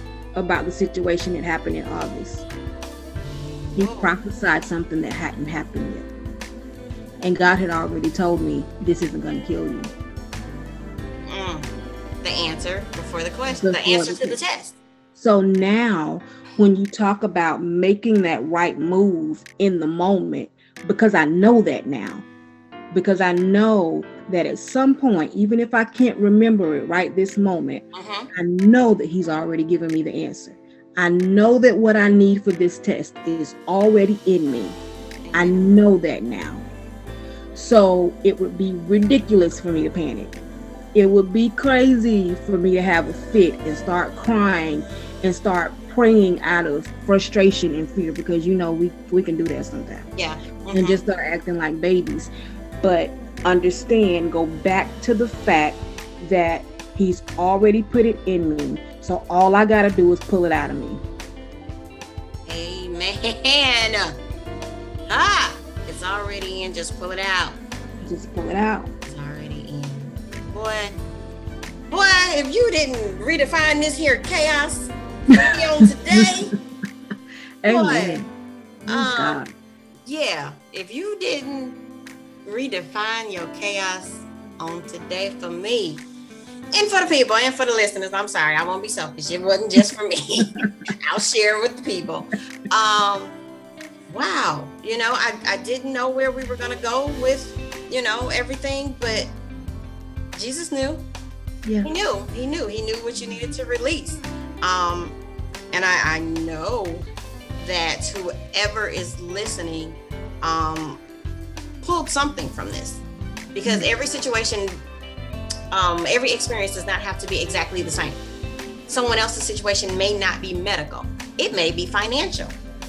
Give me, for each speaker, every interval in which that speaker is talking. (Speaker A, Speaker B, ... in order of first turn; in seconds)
Speaker A: 0.3-2.5, 3.8-6.1, 7.2-9.9, 13.5-14.4, 15.2-22.2, 22.9-34.8, 35.3-36.6, 37.5-40.4, 40.9-50.1, 50.7-61.0, 68.0-68.9, 77.6-78.3, 78.8-79.5, 90.6-90.9, 101.7-101.9, 103.2-103.5, 113.7-113.9
Speaker B: 3.1-4.2, 11.3-11.7, 12.2-14.8, 27.9-28.3, 35.3-35.7, 50.2-51.0, 62.5-64.2, 65.1-67.6, 69.1-71.0, 71.9-76.5, 77.7-78.2, 78.9-79.4, 80.0-81.8, 82.5-86.0, 86.7-93.3, 94.1-99.3, 100.3-101.1, 101.8-105.2, 105.7-107.0, 107.6-111.0, 111.8-113.0, 113.5-114.8, 115.7-118.2, 118.9-122.6